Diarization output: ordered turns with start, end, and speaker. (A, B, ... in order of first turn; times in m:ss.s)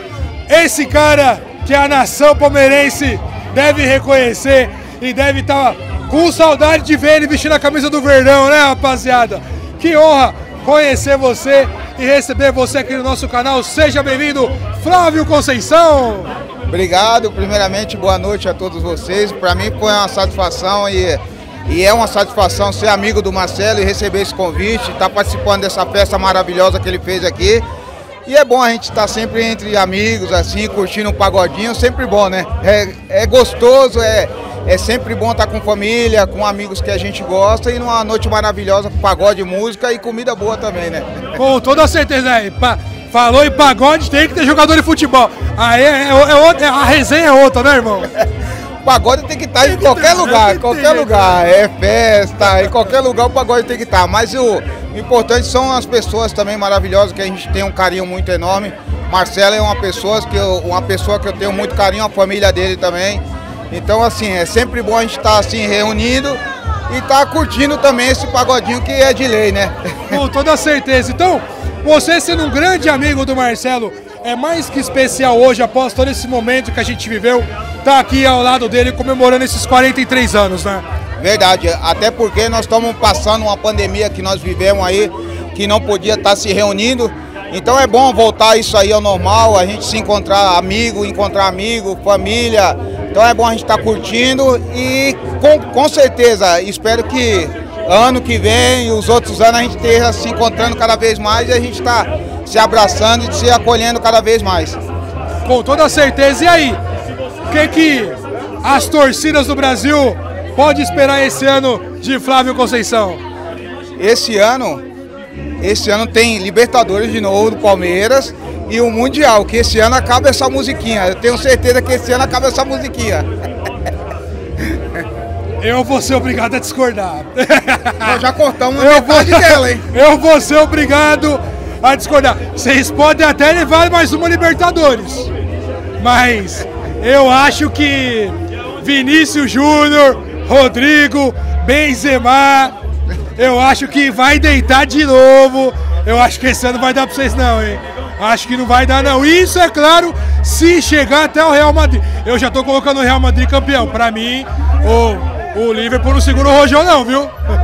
0:00.5-0:16.3 A
0:16.7-0:27.6 B
0:28.2-0:41.2 B
0:41.4-0:48.1 A
0:48.8-1:10.2 B
0:49.6-0:51.4 A
1:10.1-1:20.8 A
1:21.2-1:44.8 B
1:45.4-1:46.8 A
1:47.5-1:53.2 A
1:54.0-1:54.8 B
1:55.6-2:03.2 B
2:05.6-2:08.2 A
2:08.0-2:09.8 B
2:08.8-2:15.3 A
2:16.0-2:22.7 A
2:23.4-2:37.3 A